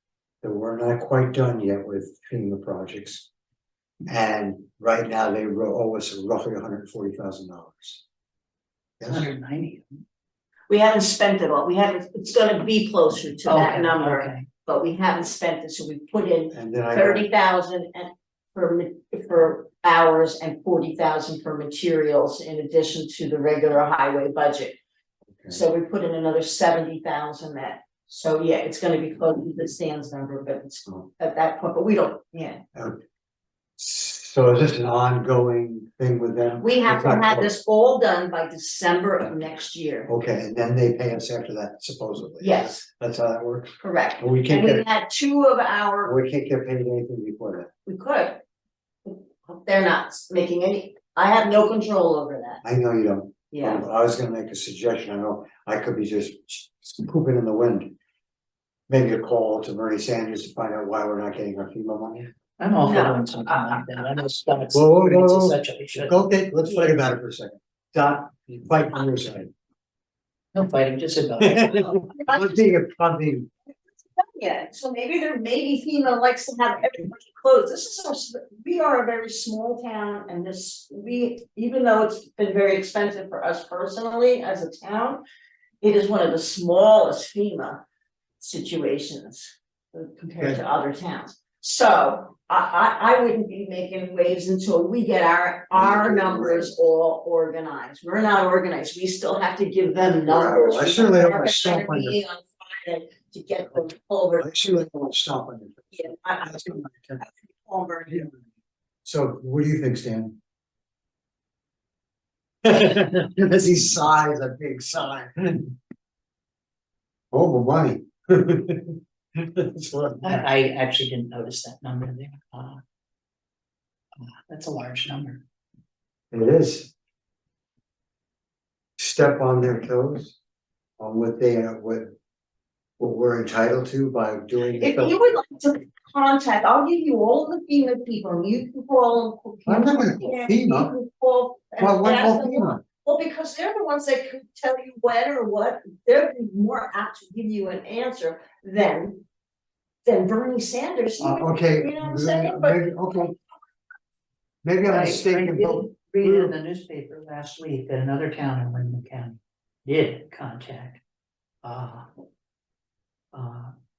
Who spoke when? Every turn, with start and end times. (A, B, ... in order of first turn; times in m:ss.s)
0:00.4-0:03.3 A
0:04.1-0:08.0 A
0:09.0-0:09.3 A
0:09.1-0:10.0 B
0:10.7-0:24.8 C
0:13.4-0:14.4 B
0:16.5-0:17.3 A
0:25.5-0:32.6 C
0:33.8-0:37.5 A
0:36.6-0:40.1 C
0:40.1-0:44.8 A
0:42.4-0:42.8 C
0:43.8-0:46.1 C
0:46.0-0:47.7 A
0:47.8-0:48.4 C
0:49.0-0:52.6 C
0:52.6-0:57.9 A
0:53.5-0:53.8 C
0:58.9-1:02.3 A
1:02.6-1:06.1 B
1:02.8-1:03.9 C
1:04.7-1:09.5 A
1:06.7-1:07.0 C
1:10.5-1:12.0 B
1:11.4-1:13.5 A
1:12.1-1:12.5 C
1:14.2-1:25.2 C
1:25.8-1:27.8 C
1:28.4-1:44.5 C
1:35.7-1:36.7 A
1:40.3-1:42.2 A
1:44.4-1:47.2 A
1:45.9-1:48.4 C
1:49.0-1:50.4 A
1:52.6-1:55.7 A
1:57.3-2:00.4 A
2:00.2-2:02.8 B
2:04.2-2:05.4 B
2:06.3-2:06.9 A
2:09.0-2:10.4 A
2:11.0-2:12.1 A
2:13.0-2:15.2 A
2:14.8-2:29.2 C
2:19.6-2:20.9 A
2:21.8-2:22.8 A
2:30.0-2:33.0 C
2:31.2-2:33.3 A
2:34.6-2:36.5 A
2:34.9-2:41.0 B
2:41.6-2:42.1 B
2:43.3-2:43.7 B